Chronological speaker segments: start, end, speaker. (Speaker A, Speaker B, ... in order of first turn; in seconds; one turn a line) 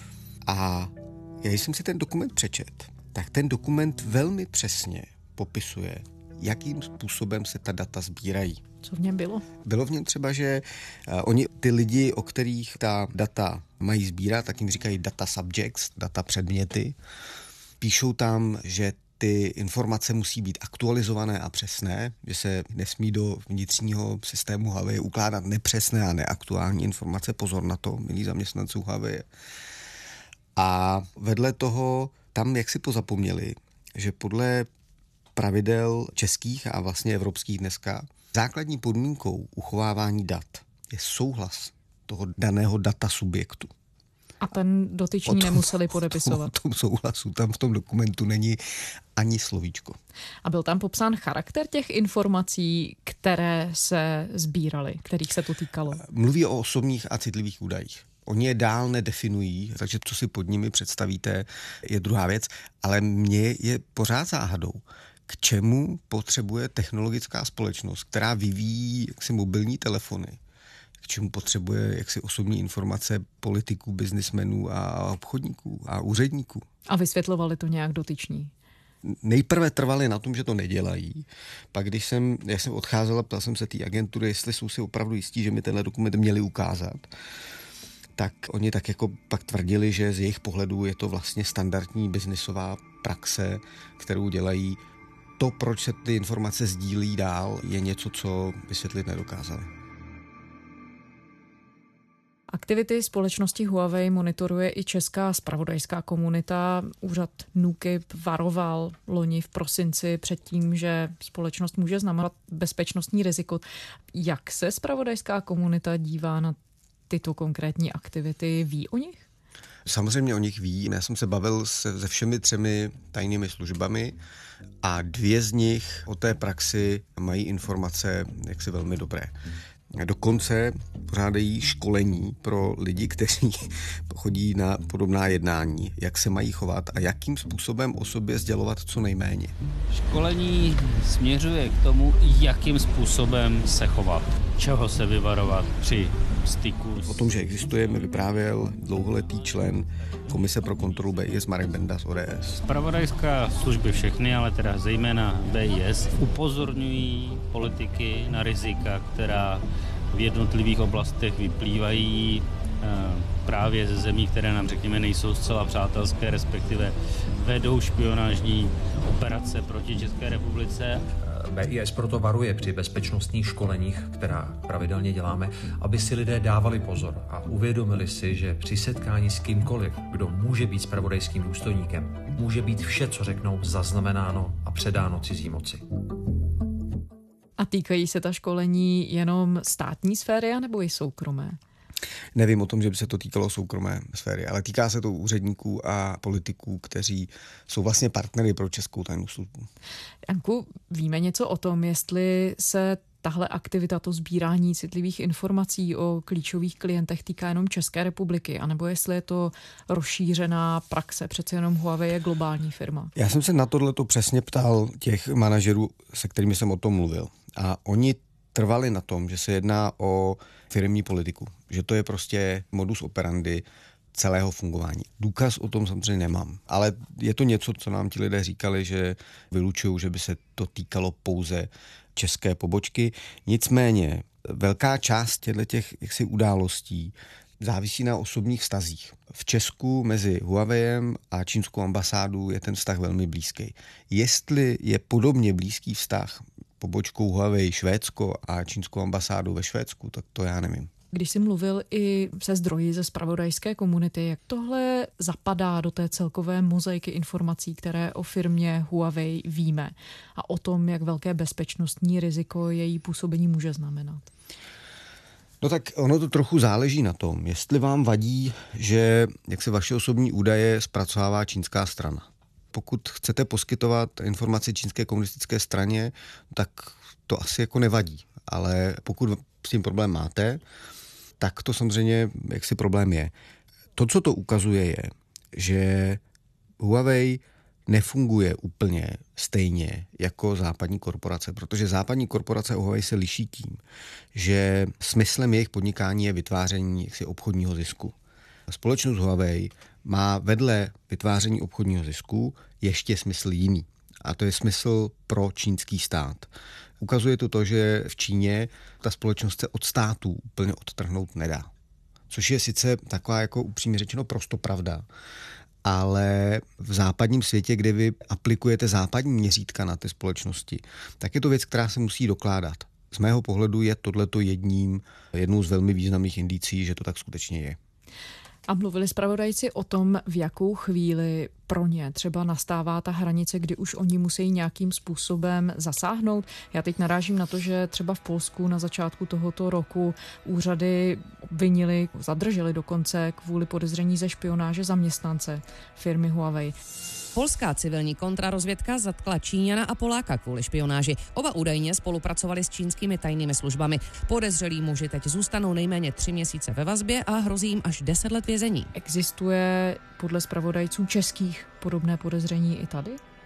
Speaker A: 0.4-8.6
Speaker B: 8.8-9.4
Speaker A: 9.6-16.9
Speaker A: 17.8-29.3
Speaker A: 30.6-34.7
Speaker A: 35.4-43.7
Speaker B: 44.4-46.5
Speaker A: 45.3-48.6
Speaker A: 49.2-50.0
Speaker B: 50.4-56.0
Speaker A: 56.0-70.4
Speaker A: 71.0-76.7
Speaker B: 76.9-78.5
Speaker A: 79.0-87.1
Speaker A: 88.2-94.8
Speaker A: 95.4-99.7
Speaker B: 102.5-116.6
Speaker B: 117.1-119.2
Speaker A: 119.8-124.2
Speaker A: 124.8-129.3
Speaker A: 129.9-139.6
Speaker C: 139.9-147.2
Speaker A: 147.1-152.6
Speaker C: 152.6-171.0
Speaker D: 171.2-185.8
Speaker B: 187.6-191.6
Speaker A: 192.3-199.7
Speaker B: 200.3-213.1
Speaker A: 213.2-250.9
Speaker B: 251.1-264.3
Speaker A: 265.6-280.6
Speaker A: 281.4-283.3
Speaker A: 283.9-286.2
Speaker A: 286.8-293.8
Speaker A: 294.3-298.1
Speaker A: 298.7-311.7
Speaker A: 312.3-315.1
Speaker A: 315.8-327.8
Speaker B: 328.7-346.7
Speaker E: 347.3-358.9
Speaker B: 358.9-363.2